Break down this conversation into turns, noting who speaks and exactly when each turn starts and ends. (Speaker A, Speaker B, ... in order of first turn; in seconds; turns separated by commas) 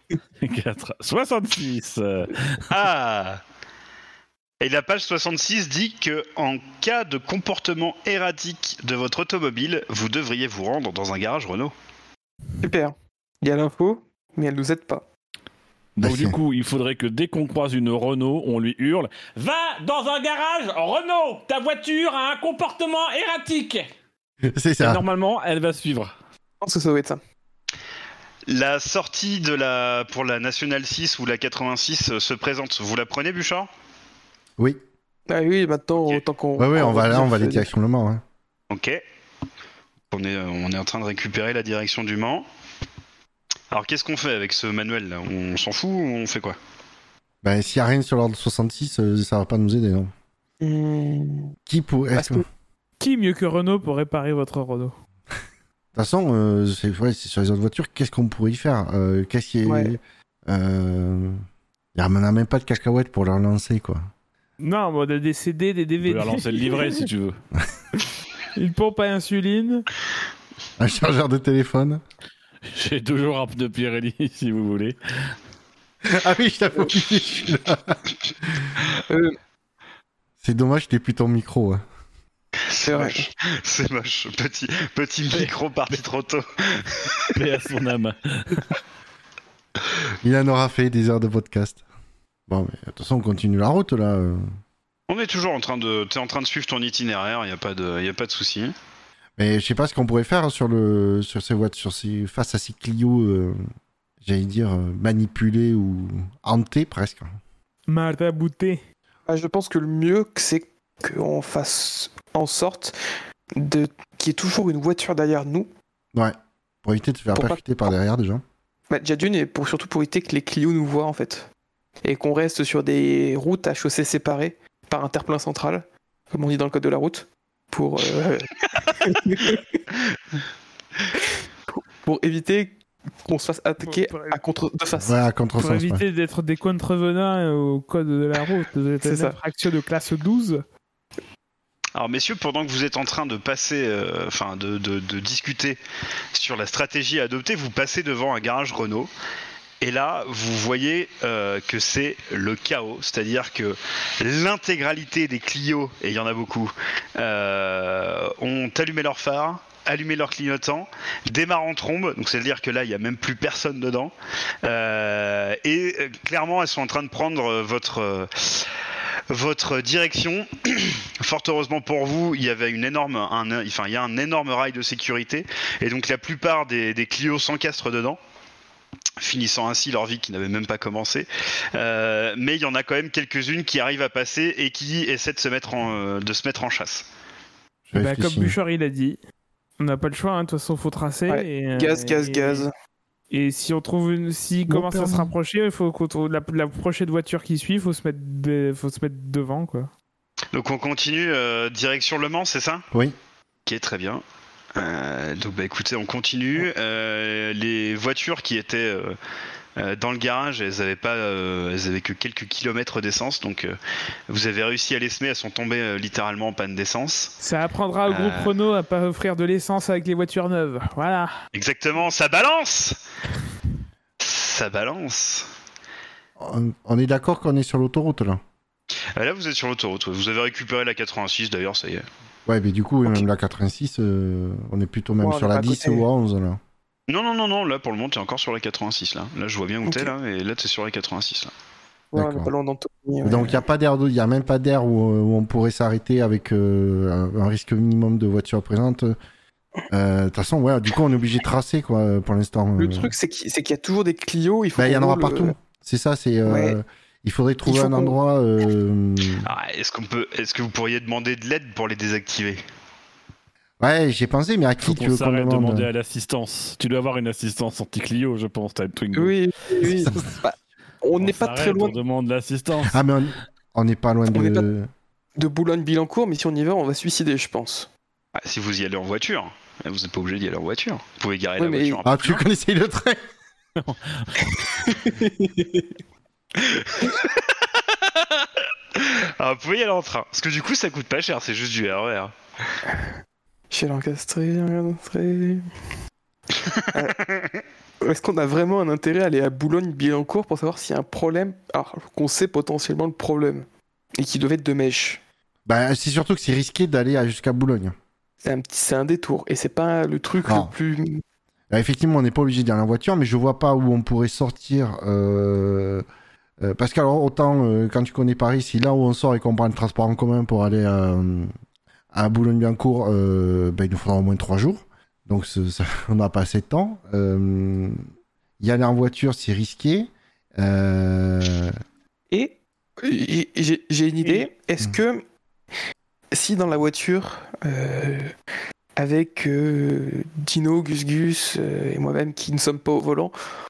Speaker A: 0.4-2.6, Speaker B: 2.7-3.4, Speaker B: 4.6-11.7, Speaker C: 12.6-15.1, Speaker A: 15.9-23.9, Speaker D: 16.0-16.4, Speaker D: 24.4-25.0, Speaker A: 24.8-26.1, Speaker C: 26.6-27.2, Speaker B: 28.5-33.7, Speaker C: 35.3-37.7, Speaker D: 36.6-38.2, Speaker B: 38.7-39.0, Speaker B: 40.1-42.5, Speaker B: 43.7-46.6, Speaker D: 47.4-50.1, Speaker C: 50.6-51.5, Speaker D: 51.7-52.5, Speaker C: 52.1-52.4, Speaker E: 53.0-54.9, Speaker D: 55.9-61.4, Speaker C: 59.6-60.0, Speaker D: 61.9-64.1, Speaker E: 64.6-67.1, Speaker A: 66.0-67.4, Speaker E: 68.5-69.9, Speaker D: 70.8-72.0, Speaker A: 72.7-75.3, Speaker D: 76.0-78.7, Speaker C: 79.1-79.4, Speaker D: 80.4-81.8, Speaker B: 82.7-87.3, Speaker C: 82.8-83.3, Speaker A: 85.3-86.0, Speaker A: 87.3-88.7, Speaker D: 90.2-91.8, Speaker D: 92.5-94.4, Speaker B: 95.1-98.7, Speaker D: 99.4-103.6, Speaker D: 104.2-107.3, Speaker E: 107.9-108.8, Speaker C: 109.3-113.0, Speaker C: 113.5-115.7, Speaker D: 116.1-118.4, Speaker C: 117.3-117.6, Speaker C: 118.9-121.5, Speaker C: 122.0-129.8, Speaker C: 131.8-135.1, Speaker E: 133.8-134.4, Speaker D: 135.0-136.0, Speaker E: 135.6-140.6, Speaker C: 139.0-139.3, Speaker B: 141.9-145.8, Speaker B: 146.3-149.1, Speaker B: 149.8-168.7, Speaker B: 169.3-178.2, Speaker B: 179.2-187.1, Speaker D: 187.9-188.6, Speaker E: 187.9-189.2, Speaker E: 189.8-192.7, Speaker C: 191.3-192.7, Speaker E: 193.3-199.9, Speaker D: 194.7-195.3, Speaker B: 200.5-202.8, Speaker B: 203.7-204.2, Speaker B: 204.7-209.2, Speaker B: 209.8-213.8, Speaker B: 214.3-217.3, Speaker E: 217.4-221.3, Speaker B: 218.1-218.6, Speaker B: 221.5-223.0, Speaker B: 224.2-225.5, Speaker D: 226.4-228.4, Speaker B: 229.2-232.1, Speaker D: 232.4-236.6, Speaker C: 235.2-236.1, Speaker B: 237.1-241.5, Speaker C: 239.8-240.1, Speaker C: 242.1-243.6, Speaker D: 242.2-242.5, Speaker D: 243.2-249.1, Speaker D: 249.9-253.1, Speaker C: 252.8-255.5, Speaker D: 254.8-259.5, Speaker C: 256.4-256.8, Speaker C: 257.6-258.2, Speaker B: 259.4-262.6, Speaker D: 263.8-265.9, Speaker A: 264.8-269.3, Speaker C: 269.1-272.0, Speaker D: 269.8-270.2, Speaker A: 271.2-273.0, Speaker D: 272.9-274.9, Speaker C: 274.3-274.7, Speaker C: 275.4-277.9, Speaker B: 278.4-282.4, Speaker C: 281.6-282.0, Speaker D: 282.0-283.2, Speaker A: 283.8-284.8, Speaker C: 284.8-285.9, Speaker B: 287.0-292.3, Speaker C: 293.7-295.6, Speaker B: 296.6-297.6, Speaker C: 296.9-297.2, Speaker C: 298.0-305.2, Speaker D: 305.6-307.9, Speaker C: 308.4-311.2, Speaker D: 310.4-310.7, Speaker D: 311.7-316.0, Speaker D: 316.6-321.5, Speaker D: 322.1-328.0, Speaker D: 328.6-331.7, Speaker C: 332.3-335.2, Speaker C: 336.3-338.3, Speaker C: 338.9-343.3